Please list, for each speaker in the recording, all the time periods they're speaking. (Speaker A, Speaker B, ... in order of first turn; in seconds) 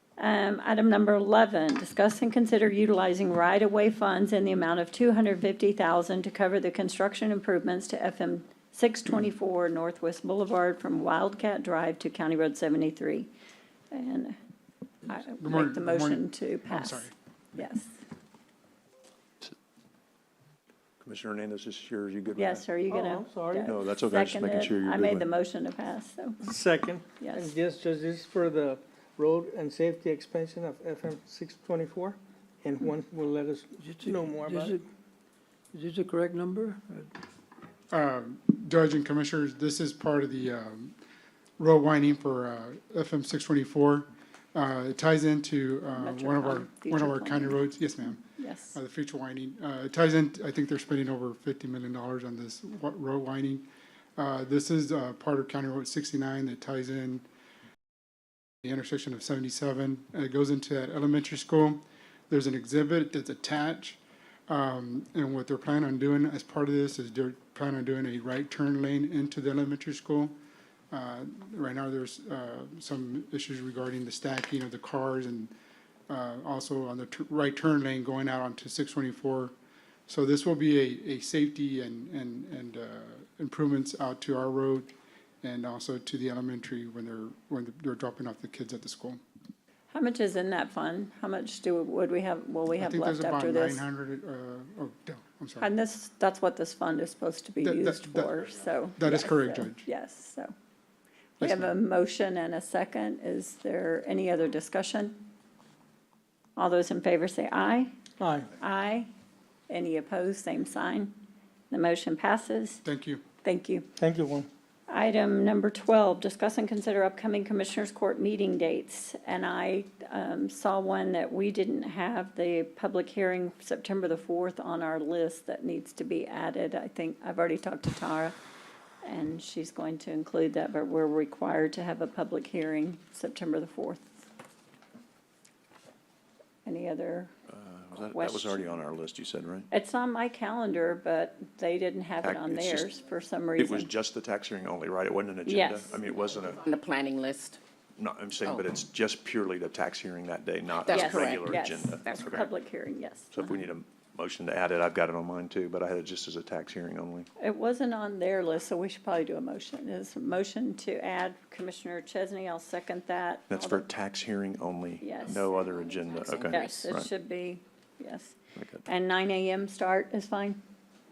Speaker A: 0.2-13.3, 13.9-14.3, 15.1-17.9, 22.4-26.4, 27.2-27.5, 46.0-47.7, 48.4-48.8, 89.9-93.8, 95.6-100.5, 101.4-105.2, 106.6-107.9, 108.6-109.1, 109.7-111.2, 111.7-112.8, 113.4-113.9, 114.9-128.4, 129.0-134.2, 136.7-137.3, 138.1-138.8, 139.7-143.9, 145.5-146.0, 150.9-153.6, 157.4-163.9, 165.0-165.5, 166.4-170.6
Speaker B: 15.2-17.1, 37.9-40.9, 41.6-53.6, 54.2-57.2, 58.6-64.0, 64.5-70.3, 70.9-75.5, 76.1-79.5, 80.1-84.9, 85.4-89.2, 92.8-95.7, 97.6-98.3, 99.0-99.8, 101.4-101.7, 112.8-113.2
Speaker C: 21.0-22.7, 23.6-25.3, 137.5-139.7, 142.2-142.9, 143.6-146.6, 148.0-152.5, 153.3-157.3, 163.5-167.1, 168.6-168.8
Speaker D: 22.9-23.7, 26.4-34.8, 108.2-108.5, 114.0-114.5
Speaker E: 33.8-34.8, 35.7-37.1
Speaker F: 146.3-147.6, 150.8-152.4, 166.2-166.9